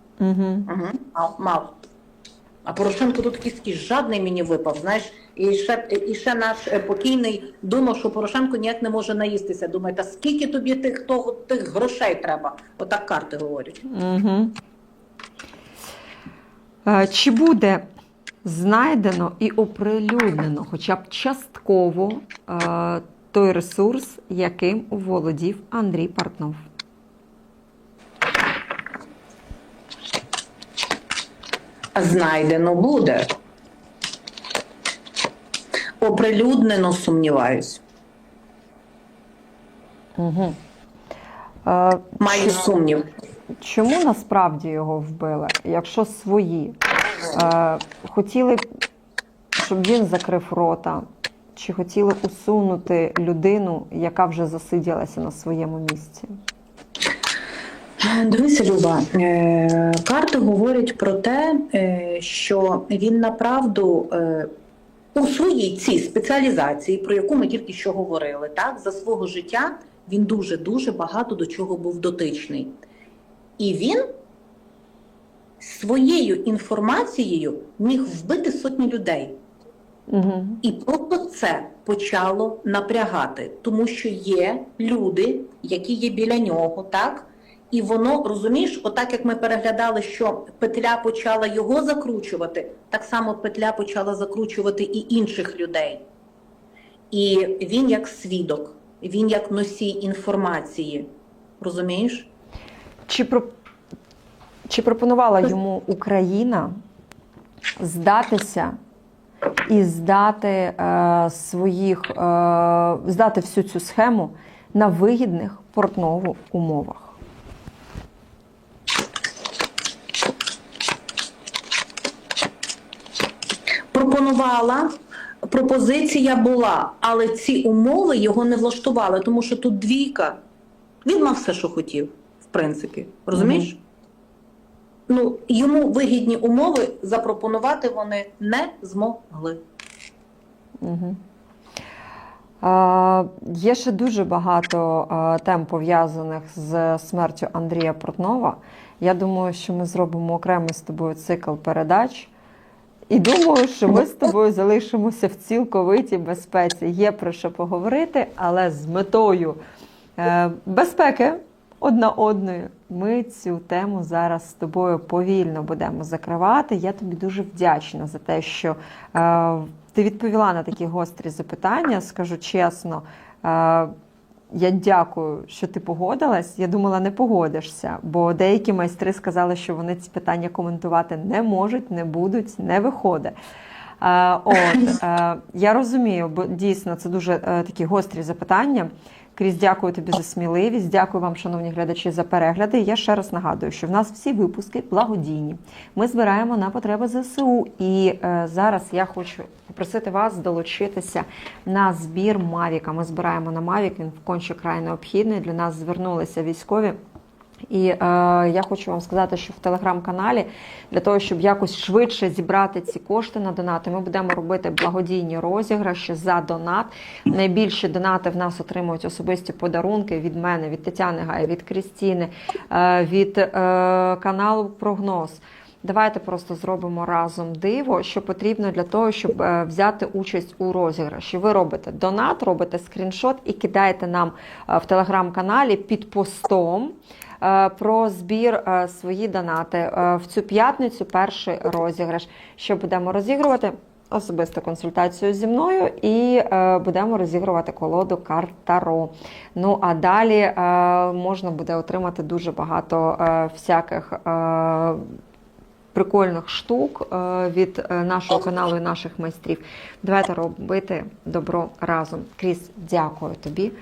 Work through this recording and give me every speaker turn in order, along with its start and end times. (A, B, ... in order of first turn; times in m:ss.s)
0:00.2-0:00.7 A
0:00.7-0:01.7 B
0:02.7-0:13.8 B
0:13.9-0:14.6 A
0:16.8-0:17.9 A
0:18.4-0:26.6 A
0:32.0-0:33.3 B
0:36.0-0:37.8 B
0:40.2-0:40.6 A
0:41.6-0:42.6 A
0:42.2-0:43.1 B
0:43.6-0:46.8 A
0:47.3-0:48.7 A
0:49.6-0:56.3 A
0:58.0-1:04.5 B
1:05.1-1:12.8 B
1:13.6-1:14.0 B
1:15.6-1:19.4 B
1:20.1-1:20.6 A
1:20.6-1:36.0 B
1:37.1-1:41.1 B
1:41.6-1:42.3 B
1:43.1-1:43.5 A
1:44.7-1:46.8 A
1:47.8-1:48.8 A
1:49.7-1:57.2 A
2:03.9-2:04.9 B
2:05.5-2:10.4 B
2:11.0-2:13.8 B
2:13.3-2:13.7 A
2:15.1-2:19.6 B
2:20.8-2:21.2 A
2:22.6-2:32.3 A
2:33.1-2:39.6 A
2:40.2-2:53.9 A
2:54.5-3:03.4 A
3:04.0-3:27.0 A
3:27.7-4:15.0 A
4:15.9-4:23.7 A